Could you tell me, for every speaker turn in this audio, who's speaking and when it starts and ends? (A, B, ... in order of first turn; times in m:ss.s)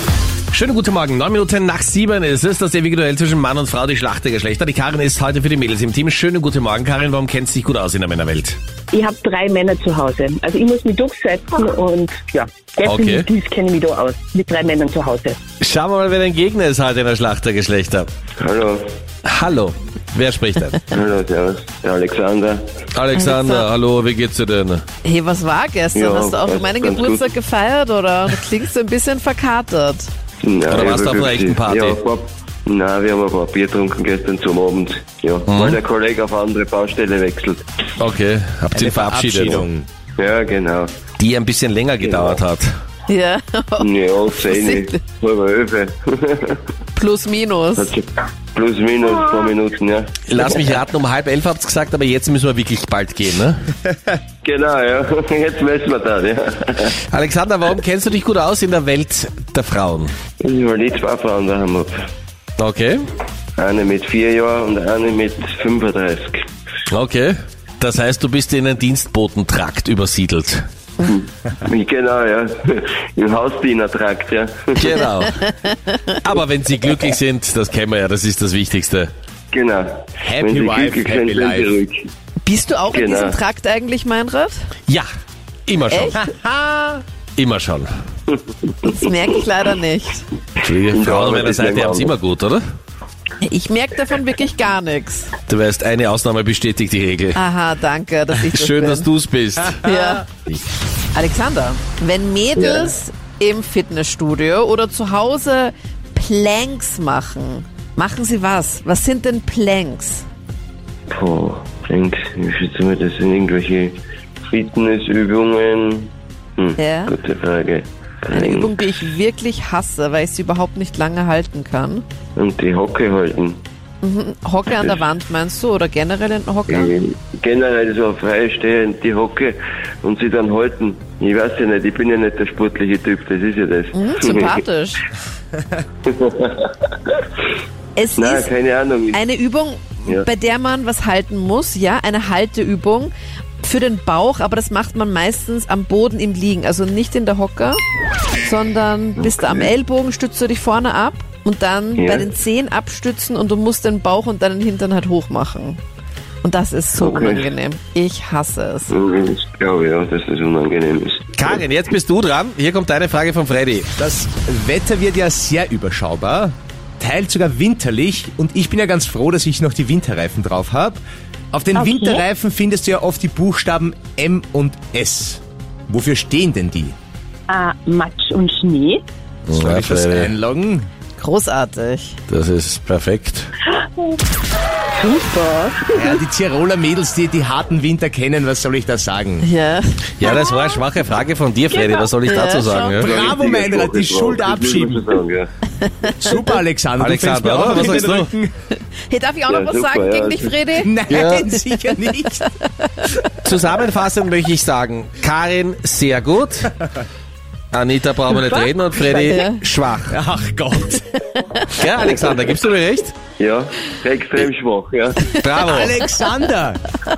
0:00.5-0:08.6 A
0:08.9-0:15.4 B
0:12.8-0:13.2 A
0:15.6-0:18.1 A
0:18.4-0:18.8 C
0:19.2-0:20.9 A
0:20.9-0:22.6 C
0:23.0-0:24.8 A
0:23.1-0:23.7 D
0:25.0-0:30.1 D
0:26.0-0:27.3 C
0:30.4-0:37.6 C
0:30.7-0:32.0 A
0:35.5-0:35.8 A
0:38.0-0:39.7 A
0:38.7-0:39.9 E
0:40.2-0:40.9 C
0:41.2-0:42.7 A
0:42.0-0:42.4 C
0:43.1-0:45.0 D
0:43.8-0:46.6 C
0:47.0-0:47.9 D
0:47.8-0:50.7 C
0:50.3-0:53.6 A
0:54.4-0:56.9 C
0:57.1-1:00.1 A
1:00.4-1:02.0 C
1:02.6-1:03.0 A
1:03.6-1:06.4 C
1:06.9-1:10.6 A
1:11.0-1:14.9 C
1:14.8-1:15.4 A
1:15.5-1:16.0 D
1:16.2-1:19.1 A
1:19.5-1:22.0 C
1:20.2-1:21.8 E
1:22.4-1:24.6 D
1:22.9-1:23.4 C
1:25.7-1:26.2 A
1:25.9-1:26.2 D
1:26.2-1:26.9 E
1:27.4-1:27.9 A
1:28.3-1:29.0 C
1:28.8-1:30.2 D
1:30.6-1:32.6 A
1:30.9-1:32.1 C
1:33.4-1:35.3 D
1:35.5-1:37.4 A
1:37.4-1:39.1 D
1:38.4-1:39.9 A
1:39.8-1:40.3 D
1:41.1-1:50.2 D
1:42.6-1:42.9 C
1:51.1-1:54.0 C
1:54.5-1:58.8 C
1:56.8-1:57.1 D
1:58.3-2:02.0 D
2:02.4-2:03.6 C
2:04.0-2:06.9 D
2:04.7-2:05.0 C
2:06.7-2:14.6 C
2:13.9-2:15.0 D
2:16.1-2:17.1 C
2:18.0-2:18.5 D
2:18.2-2:19.2 C
2:19.1-2:27.8 D
2:28.4-2:35.8 D
2:29.2-2:29.7 C
2:32.0-2:32.3 C
2:36.4-2:38.9 D
2:37.0-2:37.5 C
2:38.9-2:41.2 C
2:41.3-2:43.9 A
2:44.0-2:51.0 E
2:51.5-2:57.0 E
2:51.7-2:52.2 B
2:57.5-2:59.0 B
2:59.5-3:00.3 A
2:59.5-3:00.9 E
3:01.2-3:02.2 D
3:02.3-3:03.5 A
3:05.0-3:06.2 B
3:05.9-3:09.5 E
3:09.4-3:10.4 D
3:10.2-3:13.2 A
3:11.8-3:12.1 B
3:12.2-3:13.0 D
3:13.0-3:15.2 E
3:13.0-3:15.5 C
3:16.0-3:16.3 D
3:16.1-3:18.5 E
3:17.0-3:18.3 A
3:19.1-3:20.9 D
3:19.5-3:20.5 C
3:20.8-3:22.5 E
3:21.1-3:21.5 A
3:21.7-3:22.5 D
3:23.4-3:26.7 A
3:27.7-3:30.2 A
3:28.6-3:29.3 B
3:29.2-3:29.6 D
3:30.1-3:31.2 E
3:31.7-3:33.2 A
3:33.4-3:35.3 C
3:35.3-3:36.0 A
3:35.6-3:36.9 E